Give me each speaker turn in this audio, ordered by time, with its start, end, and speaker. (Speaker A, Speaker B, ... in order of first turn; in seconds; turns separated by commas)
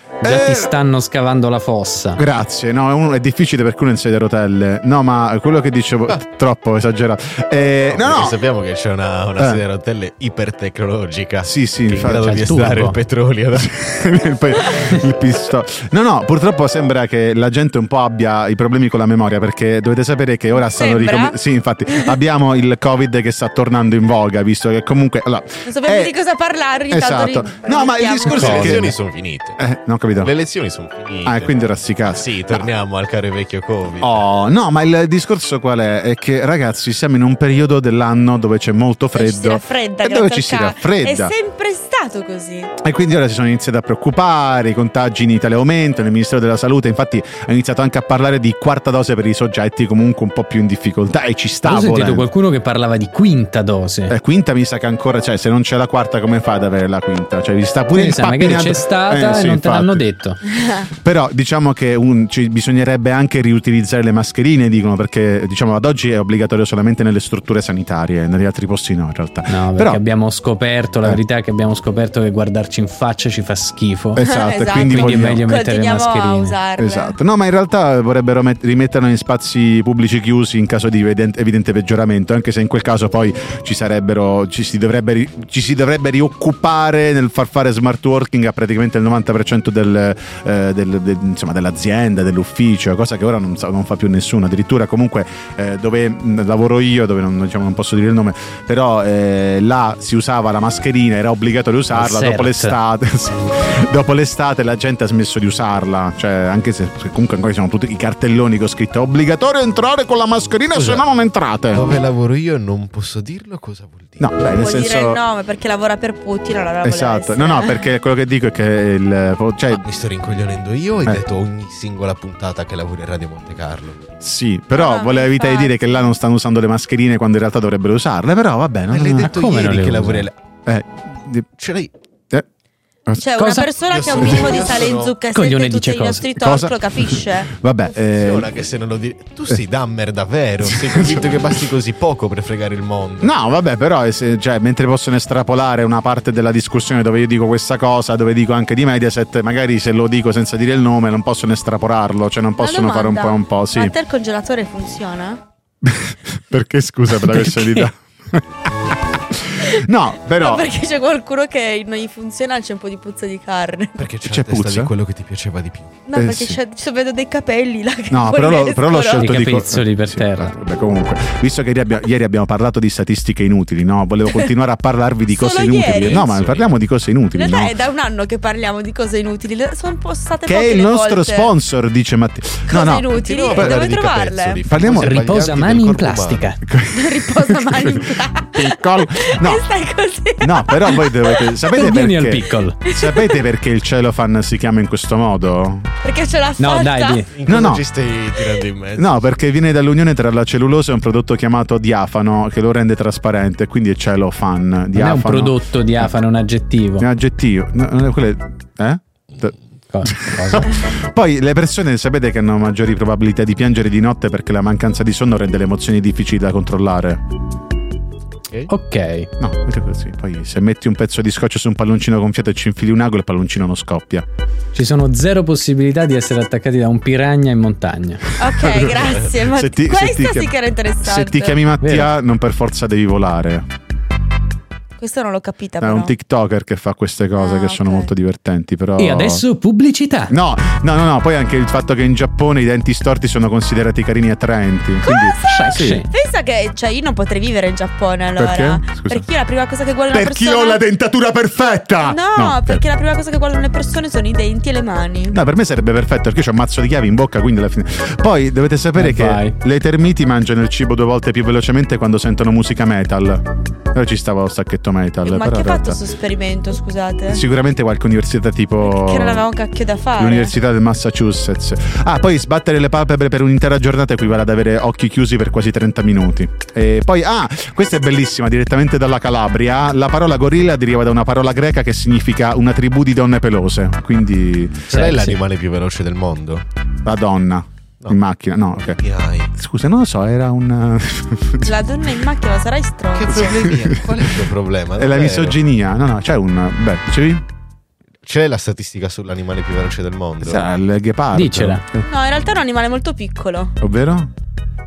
Speaker A: 0.2-0.7, Speaker B: 0.2-2.2, Speaker A: 2.1-8.4, Speaker C: 8.0-13.7, Speaker A: 11.4-12.3, Speaker B: 11.9-13.0, Speaker A: 13.5-26.1, Speaker D: 20.6-21.4, Speaker D: 25.6-28.5, Speaker A: 26.9-29.0, Speaker C: 28.2-29.6, Speaker B: 28.4-28.7, Speaker A: 29.6-30.3, Speaker C: 30.2-31.5, Speaker A: 31.2-32.7, Speaker C: 32.0-34.2, Speaker A: 34.0-41.3, Speaker D: 39.1-42.7, Speaker A: 42.8-52.3, Speaker B: 51.6-54.1, Speaker A: 54.1-60.0, Speaker B: 57.9-60.4, Speaker A: 61.0-70.0, Speaker B: 69.5-74.2, Speaker A: 74.1-75.4, Speaker D: 74.2-77.1, Speaker B: 74.8-76.6, Speaker A: 76.8-111.9, Speaker B: 101.9-102.8, Speaker C: 111.7-114.3, Speaker A: 114.2-115.2, Speaker D: 114.6-117.8, Speaker A: 116.8-119.8, Speaker C: 119.7-124.0, Speaker A: 124.2-129.3, Speaker D: 124.7-125.7, Speaker C: 128.9-130.3, Speaker B: 129.2-130.3, Speaker A: 130.7-131.5, Speaker C: 131.6-131.9, Speaker A: 133.1-133.6, Speaker D: 133.2-137.5, Speaker B: 133.4-133.7, Speaker C: 133.8-135.2, Speaker A: 134.1-134.5, Speaker B: 135.3-136.2, Speaker A: 136.4-138.5, Speaker C: 138.1-143.3, Speaker A: 140.6-141.6, Speaker A: 143.2-153.9, Speaker D: 152.6-155.4, Speaker A: 155.8-160.7, Speaker B: 157.2-157.9, Speaker D: 160.4-164.0, Speaker C: 163.9-166.0, Speaker A: 164.2-164.9, Speaker D: 166.1-169.4, Speaker A: 166.1-166.6, Speaker A: 168.1-177.7, Speaker B: 169.1-170.5, Speaker D: 175.3-176.2, Speaker C: 175.8-176.7, Speaker D: 177.3-181.5, Speaker A: 180.4-183.9, Speaker D: 182.7-184.6, Speaker C: 183.1-186.5, Speaker A: 184.6-185.3, Speaker B: 184.9-186.6, Speaker A: 186.6-189.7, Speaker D: 186.9-191.7, Speaker A: 190.4-195.9, Speaker B: 191.8-192.8, Speaker D: 192.8-193.4, Speaker D: 196.0-197.3, Speaker B: 196.6-197.3, Speaker C: 197.3-199.2, Speaker A: 197.4-197.8, Speaker A: 199.0-206.1, Speaker B: 204.9-207.1, Speaker A: 207.0-217.2, Speaker B: 209.9-210.7, Speaker B: 218.7-219.3, Speaker A: 219.4-224.2, Speaker B: 224.7-228.2, Speaker D: 228.4-231.6, Speaker A: 228.6-230.5, Speaker A: 231.0-233.7, Speaker B: 231.8-232.1, Speaker D: 235.0-236.1, Speaker A: 235.8-239.4, Speaker D: 237.4-238.1, Speaker B: 239.0-240.3, Speaker A: 240.3-246.0, Speaker D: 245.0-250.8, Speaker B: 245.4-246.1, Speaker A: 248.3-249.3, Speaker A: 250.1-252.8, Speaker D: 252.0-255.4, Speaker A: 255.3-266.0, Speaker B: 258.9-259.6, Speaker D: 265.2-267.4, Speaker A: 267.3-269.5, Speaker D: 268.8-270.5, Speaker A: 270.2-284.9, Speaker C: 284.9-286.6, Speaker B: 284.9-285.4, Speaker A: 287.0-289.0, Speaker C: 288.8-289.5, Speaker A: 289.5-291.7, Speaker D: 291.6-293.6, Speaker C: 293.1-295.6, Speaker A: 293.3-297.4, Speaker C: 298.2-300.7, Speaker A: 300.4-302.1, Speaker B: 301.3-301.8, Speaker D: 302.0-303.7, Speaker A: 303.8-304.3